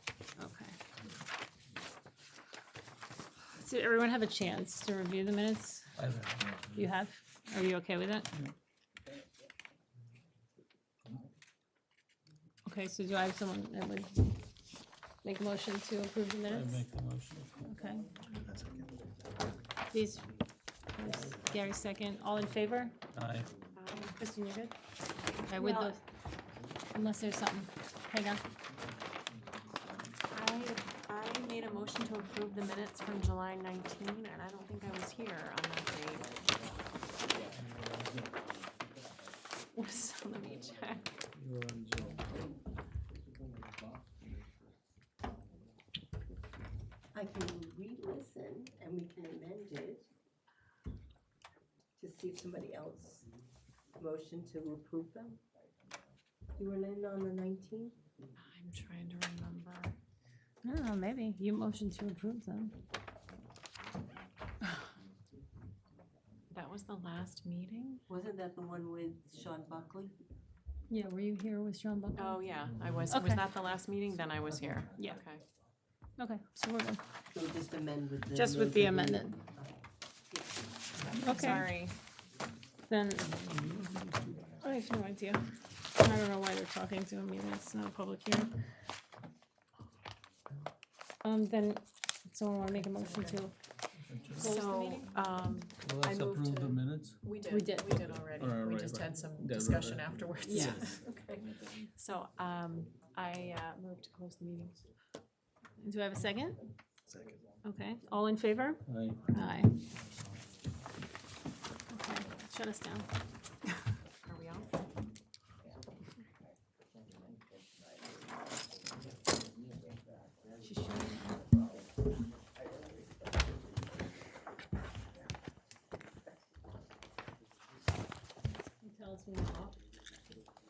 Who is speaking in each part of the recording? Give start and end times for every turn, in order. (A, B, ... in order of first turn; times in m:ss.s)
0:00.4-0:00.8 A
0:03.5-0:05.9 A
0:06.0-0:06.8 B
0:06.8-0:08.3 A
0:12.7-0:14.3 A
0:15.2-0:16.8 A
0:16.4-0:17.6 B
0:17.6-0:18.1 A
0:18.5-0:18.9 B
0:19.9-0:20.3 A
0:21.0-0:23.0 A
0:23.1-0:23.5 B
0:23.7-0:24.2 C
0:24.2-0:24.7 A
0:25.5-0:26.0 A
0:25.5-0:26.0 C
0:26.9-0:28.4 A
0:30.3-0:36.4 C
0:37.5-0:38.3 B
0:39.7-0:41.1 C
0:41.4-0:42.5 B
0:47.1-0:50.1 D
0:52.0-0:53.3 D
0:54.0-0:55.4 D
0:56.6-0:58.0 D
0:58.5-1:00.0 C
1:00.6-1:02.7 A
1:06.5-1:08.0 C
1:08.1-1:10.1 D
1:10.9-1:12.4 A
1:12.2-1:15.4 C
1:13.1-1:13.5 A
1:16.2-1:17.0 A
1:17.3-1:19.6 D
1:18.3-1:19.4 A
1:21.0-1:22.0 C
1:21.2-1:21.7 A
1:22.9-1:23.3 A
1:23.3-1:24.4 B
1:24.6-1:25.4 A
1:26.0-1:28.5 A
1:31.2-1:33.5 A
1:33.1-1:33.4 C
1:34.0-1:34.6 B
1:34.4-1:44.8 C
1:34.4-1:35.1 A
1:35.8-1:37.3 B
1:37.5-1:38.0 A
1:38.0-1:41.0 B
1:40.4-1:40.8 A
1:45.8-1:46.6 A
1:47.1-1:47.4 B
1:47.6-1:49.8 A
1:48.9-1:49.2 B
1:51.9-1:53.1 A
1:54.2-1:54.9 C
2:00.6-2:01.5 A
2:08.6-2:09.8 A